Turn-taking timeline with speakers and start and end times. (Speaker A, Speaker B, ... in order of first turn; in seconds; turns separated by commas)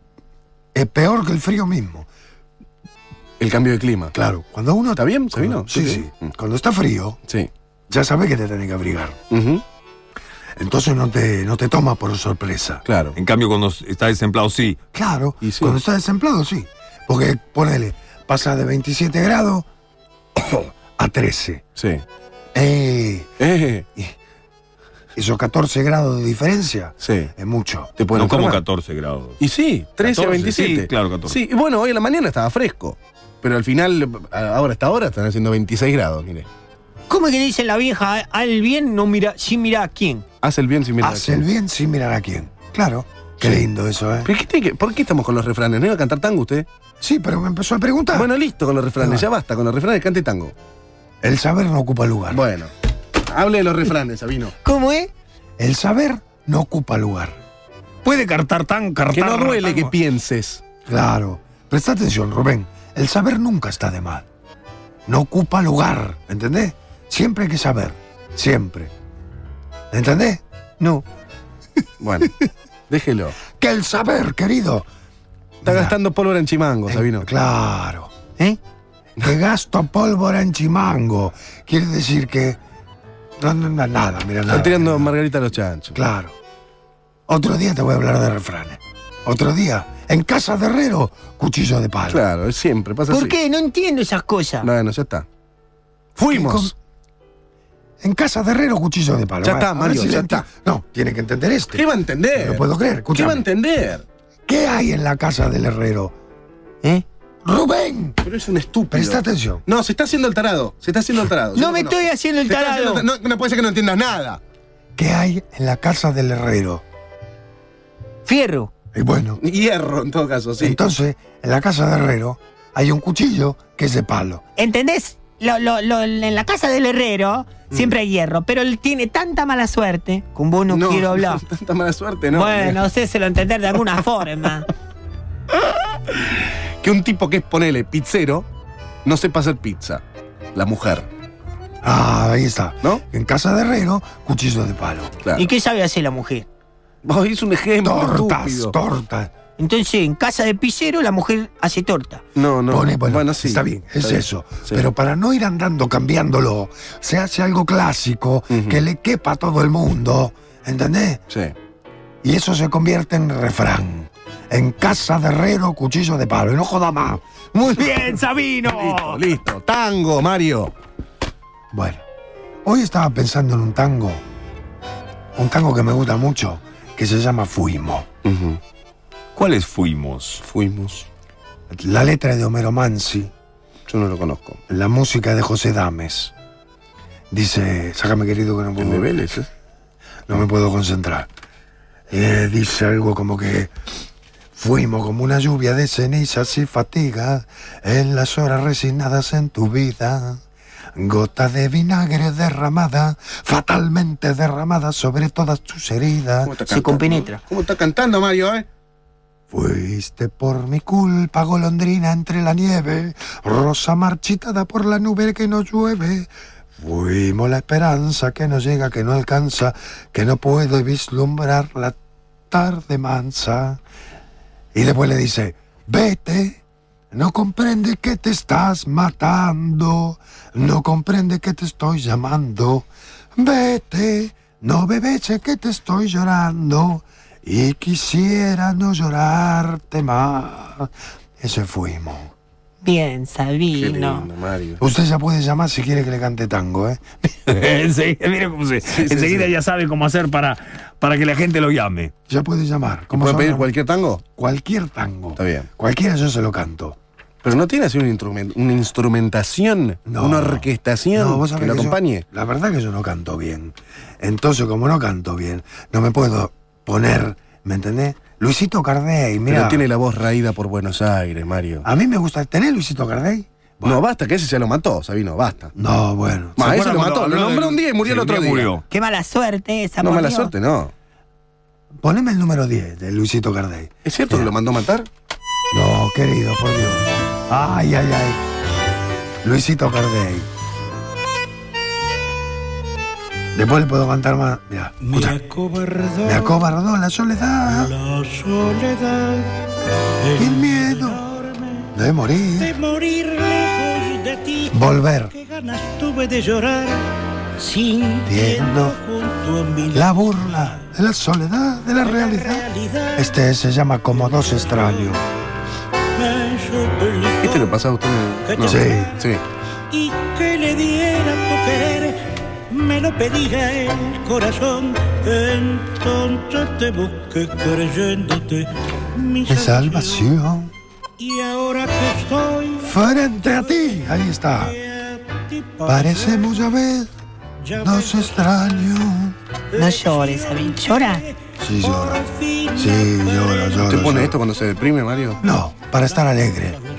Speaker A: 0.8-2.1, Speaker B: 3.4-4.1, Speaker A: 4.1-7.2, Speaker B: 5.0-6.3, Speaker A: 7.9-9.2, Speaker B: 9.3-9.6, Speaker A: 10.6-12.8, Speaker B: 12.8-13.2, Speaker C: 13.2-14.8, Speaker A: 14.9-19.7, Speaker B: 15.4-15.8, Speaker A: 20.4-21.6, Speaker B: 21.8-22.0, Speaker A: 22.5-23.4, Speaker B: 23.4-23.9, Speaker A: 25.2-27.9, Speaker B: 27.0-27.3, Speaker B: 28.0-28.6, Speaker C: 28.1-29.4, Speaker B: 29.4-36.5, Speaker C: 30.0-31.4, Speaker D: 37.1-40.2, Speaker B: 40.4-41.5, Speaker A: 41.0-44.3, Speaker B: 43.4-43.7, Speaker B: 44.2-46.7, Speaker A: 47.0-48.3, Speaker B: 48.1-50.5, Speaker A: 49.0-49.3, Speaker A: 51.2-52.4, Speaker B: 52.3-52.7, Speaker B: 53.2-54.5, Speaker D: 54.6-55.1, Speaker A: 55.6-57.4, Speaker C: 58.0-59.9, Speaker B: 59.1-60.6, Speaker A: 60.9-64.3, Speaker A: 65.1-68.9, Speaker A: 69.9-71.1, Speaker B: 72.0-72.3, Speaker B: 72.9-73.4, Speaker A: 73.5-74.9, Speaker A: 75.6-76.0, Speaker B: 75.6-77.3, Speaker A: 76.9-78.1, Speaker A: 79.2-82.6, Speaker A: 83.4-85.1, Speaker B: 84.5-86.0, Speaker A: 85.9-86.3, Speaker A: 87.3-92.2, Speaker B: 92.1-93.4, Speaker D: 93.1-94.7, Speaker B: 94.6-95.3, Speaker B: 96.2-96.7, Speaker A: 96.3-96.7, Speaker A: 98.0-101.8, Speaker B: 99.4-100.5, Speaker B: 101.7-104.0, Speaker A: 102.4-103.5, Speaker A: 104.5-106.1, Speaker A: 107.4-108.2, Speaker B: 108.2-114.4, Speaker A: 108.9-109.7, Speaker D: 111.5-113.1, Speaker A: 115.0-116.8, Speaker D: 118.2-118.7, Speaker A: 118.9-119.4, Speaker B: 119.4-120.8, Speaker A: 120.6-124.4, Speaker D: 124.6-131.4, Speaker B: 130.7-132.8, Speaker D: 132.3-134.7, Speaker B: 136.8-138.5, Speaker B: 139.1-140.0, Speaker B: 140.6-141.1, Speaker A: 141.8-145.2, Speaker D: 145.4-146.5, Speaker B: 147.0-148.8, Speaker A: 147.8-149.3, Speaker D: 149.6-152.2, Speaker B: 152.4-154.9, Speaker A: 152.7-161.2, Speaker B: 158.5-158.8, Speaker B: 161.3-161.6, Speaker A: 162.2-168.3, Speaker D: 167.9-169.1, Speaker B: 168.6-170.7, Speaker A: 171.7-172.0, Speaker A: 172.7-174.2, Speaker A: 175.4-178.1, Speaker B: 178.2-178.6, Speaker C: 179.4-180.4, Speaker B: 180.4-181.1, Speaker A: 181.7-183.3, Speaker B: 183.9-184.6, Speaker A: 184.7-186.3, Speaker A: 187.3-189.1, Speaker B: 188.8-189.5, Speaker A: 190.3-191.3, Speaker A: 192.1-193.7, Speaker A: 194.6-200.4, Speaker A: 201.0-206.6, Speaker B: 206.4-208.7, Speaker D: 206.7-207.4, Speaker A: 209.5-222.0, Speaker A: 222.5-223.8, Speaker A: 224.7-226.6, Speaker A: 227.1-240.9, Speaker A: 241.4-242.3, Speaker D: 242.8-244.3, Speaker B: 243.8-244.8, Speaker A: 244.8-247.1, Speaker C: 247.5-252.1, Speaker B: 248.8-249.5, Speaker A: 252.3-253.7, Speaker B: 253.1-254.2, Speaker A: 254.4-257.0, Speaker B: 255.4-255.7, Speaker B: 257.4-262.2, Speaker A: 260.1-269.9, Speaker B: 269.5-271.9, Speaker A: 271.8-274.0, Speaker B: 273.8-275.7, Speaker A: 275.8-276.6, Speaker B: 276.6-278.8, Speaker C: 276.6-278.8, Speaker D: 278.9-280.5, Speaker B: 280.0-280.9, Speaker A: 282.0-284.5, Speaker B: 284.1-285.1, Speaker A: 285.7-288.4, Speaker A: 289.4-290.5, Speaker A: 293.6-295.4, Speaker E: 295.1-296.4, Speaker A: 296.2-297.9, Speaker E: 297.8-299.5, Speaker E: 300.3-301.9, Speaker A: 300.4-301.3, Speaker A: 301.9-302.8, Speaker E: 302.8-304.6, Speaker A: 304.7-305.4, Speaker E: 305.4-310.0, Speaker A: 308.2-309.0, Speaker A: 309.9-315.2, Speaker E: 312.6-313.1, Speaker E: 316.2-317.6, Speaker B: 317.4-319.4, Speaker A: 318.6-319.2, Speaker E: 319.9-330.0, Speaker A: 329.5-330.7, Speaker E: 331.2-332.9, Speaker A: 332.8-334.8, Speaker E: 334.9-336.4, Speaker A: 335.8-337.1, Speaker A: 337.7-339.4, Speaker E: 337.8-338.3, Speaker D: 339.8-341.3, Speaker E: 339.8-341.0, Speaker A: 341.6-344.4, Speaker E: 342.4-342.6, Speaker B: 343.9-345.4, Speaker A: 345.4-346.8